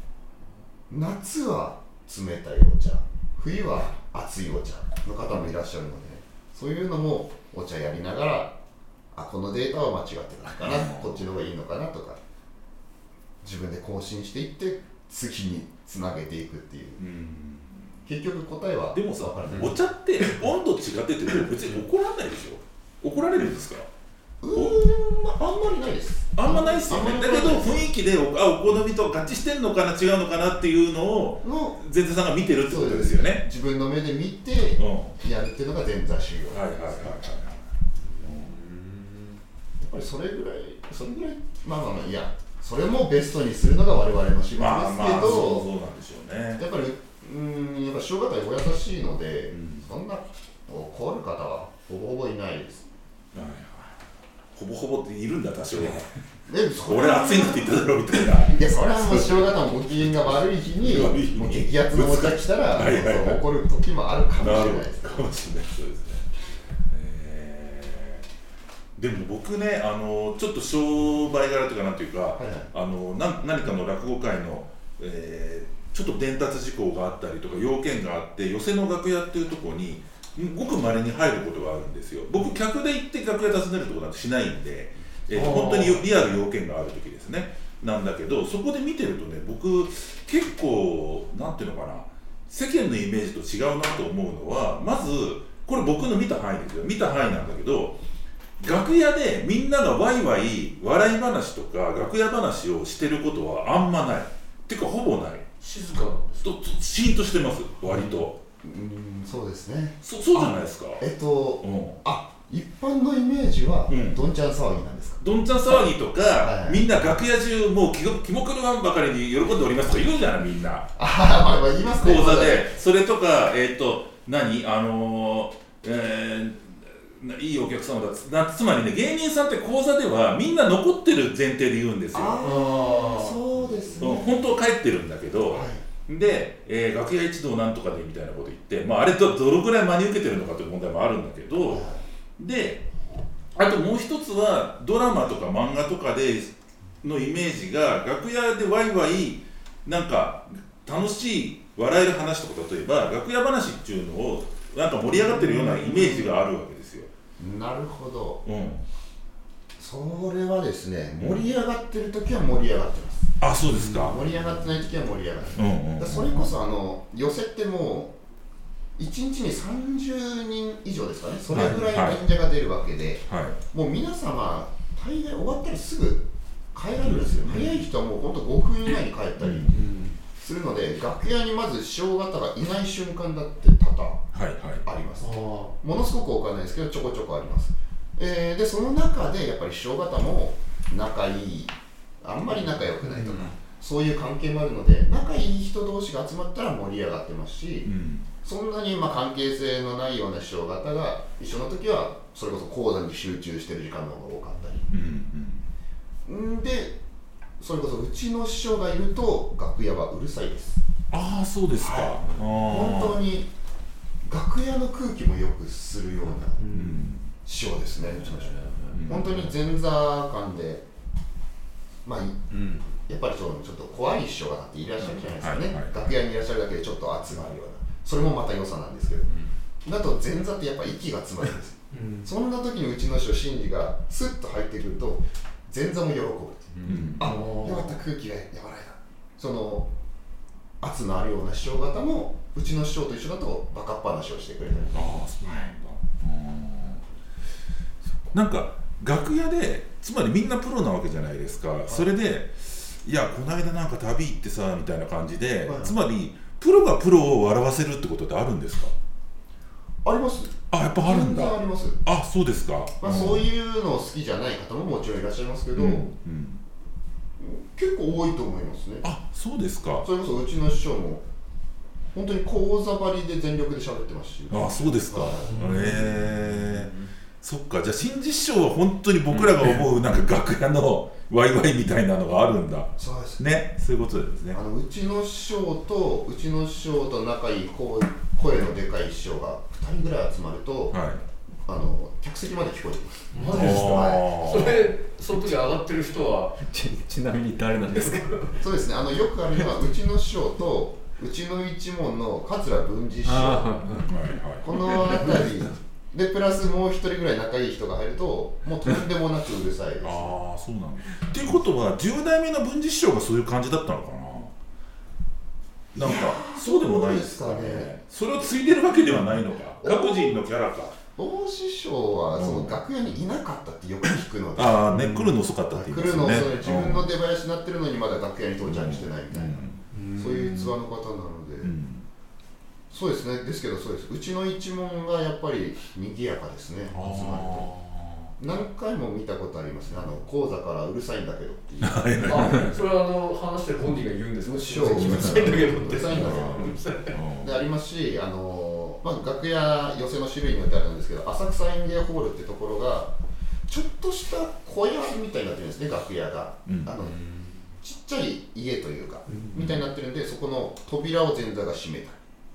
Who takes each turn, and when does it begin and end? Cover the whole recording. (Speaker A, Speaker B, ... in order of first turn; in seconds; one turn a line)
Speaker A: 0.9-8.6
Speaker A: 9.1-12.2
Speaker B: 10.6-11.2
Speaker A: 13.4-17.0
Speaker B: 17.0-18.0
Speaker A: 18.1-19.8
Speaker B: 18.9-23.9
Speaker A: 24.4-27.9
Speaker B: 24.5-24.8
Speaker B: 26.4-33.5
Speaker A: 31.4-31.8
Speaker A: 32.6-37.2
Speaker B: 34.8-35.2
Speaker B: 36.5-38.6
Speaker C: 38.4-39.4
Speaker A: 39.8-45.7
Speaker B: 44.5-46.6
Speaker A: 46.6-52.9
Speaker B: 49.5-49.9
Speaker B: 53.3-53.9
Speaker B: 54.5-56.1
Speaker A: 56.5-65.3
Speaker B: 56.8-63.4
Speaker B: 64.4-66.3
Speaker B: 66.9-68.3
Speaker B: 69.0-98.0
Speaker A: 72.4-72.7
Speaker D: 85.3-86.1
Speaker B: 98.6-105.5
Speaker D: 105.6-106.5
Speaker B: 106.4-108.4
Speaker A: 107.9-115.2
Speaker B: 110.0-111.0
Speaker B: 111.6-112.0
Speaker B: 113.9-114.2
Speaker B: 115.2-120.9
Speaker A: 116.4-116.8
Speaker A: 121.0-122.7
Speaker B: 122.0-132.4
Speaker A: 132.1-134.3
Speaker D: 132.4-133.8
Speaker B: 134.0-141.9
Speaker A: 135.5-135.8
Speaker A: 141.6-142.0
Speaker B: 142.4-142.8
Speaker B: 143.6-157.1
Speaker D: 155.1-156.1
Speaker A: 157.4-158.4
Speaker B: 158.4-158.9
Speaker A: 159.8-163.3
Speaker B: 161.2-161.5
Speaker B: 163.4-164.3
Speaker D: 163.6-164.6
Speaker A: 164.1-168.2
Speaker B: 165.6-166.5
Speaker A: 169.0-179.7
Speaker B: 171.5-172.2
Speaker B: 173.3-173.6
Speaker B: 177.0-177.9
Speaker B: 179.4-179.8
Speaker D: 179.7-180.2
Speaker A: 180.4-184.3
Speaker B: 184.3-184.8
Speaker A: 184.8-197.9
Speaker D: 185.2-185.8
Speaker D: 192.5-193.4
Speaker C: 193.2-193.4
Speaker B: 197.8-198.3
Speaker A: 198.4-204.9
Speaker B: 204.9-205.7
Speaker A: 206.2-207.0
Speaker A: 207.6-210.8
Speaker B: 211.1-213.2
Speaker A: 211.8-213.5
Speaker A: 214.2-216.6
Speaker D: 216.6-217.1
Speaker B: 216.7-217.3
Speaker A: 217.4-220.8
Speaker C: 218.1-219.4
Speaker B: 218.9-219.4
Speaker A: 222.1-222.4
Speaker C: 222.5-222.9
Speaker A: 223.1-229.3
Speaker B: 225.4-226.0
Speaker C: 229.3-229.5
Speaker A: 229.8-239.9
Speaker D: 231.9-232.3
Speaker C: 236.8-237.2
Speaker B: 236.8-237.3
Speaker D: 237.2-237.9
Speaker A: 240.8-245.6
Speaker C: 244.8-245.1
Speaker B: 244.9-247.0
Speaker B: 248.3-258.9
Speaker A: 255.6-256.0
Speaker A: 260.0-262.0
Speaker B: 260.7-263.5
Speaker A: 263.0-266.1
Speaker B: 265.8-266.6
Speaker A: 267.4-269.1
Speaker B: 269.0-270.1
Speaker A: 270.0-271.2
Speaker A: 272.1-275.7
Speaker B: 274.5-284.6
Speaker D: 275.4-276.1
Speaker C: 275.8-277.1
Speaker C: 279.3-279.8
Speaker A: 283.0-283.4
Speaker A: 284.5-291.0
Speaker B: 290.9-291.2
Speaker A: 291.7-294.3
Speaker D: 293.3-296.6
Speaker B: 293.5-294.9
Speaker C: 296.6-298.6
Speaker D: 298.1-298.6
Speaker A: 298.6-303.9
Speaker C: 299.5-299.8
Speaker C: 303.2-304.2
Speaker B: 304.1-304.9
Speaker A: 304.6-310.4
Speaker C: 304.9-305.6
Speaker B: 310.0-314.5
Speaker B: 315.9-321.0
Speaker A: 316.0-317.9
Speaker A: 318.9-320.4
Speaker A: 321.1-331.7
Speaker B: 322.4-322.8
Speaker B: 324.6-327.1
Speaker B: 328.6-329.8
Speaker D: 329.9-330.8
Speaker B: 331.6-332.1
Speaker A: 332.9-337.7
Speaker B: 336.9-338.3
Speaker A: 338.4-342.1
Speaker B: 341.8-342.8
Speaker D: 342.2-347.1
Speaker A: 344.4-346.8
Speaker B: 344.8-347.6
Speaker A: 347.4-353.1
Speaker A: 353.7-357.2
Speaker B: 356.6-356.9
Speaker C: 357.1-357.5
Speaker A: 357.8-362.2
Speaker D: 359.3-359.7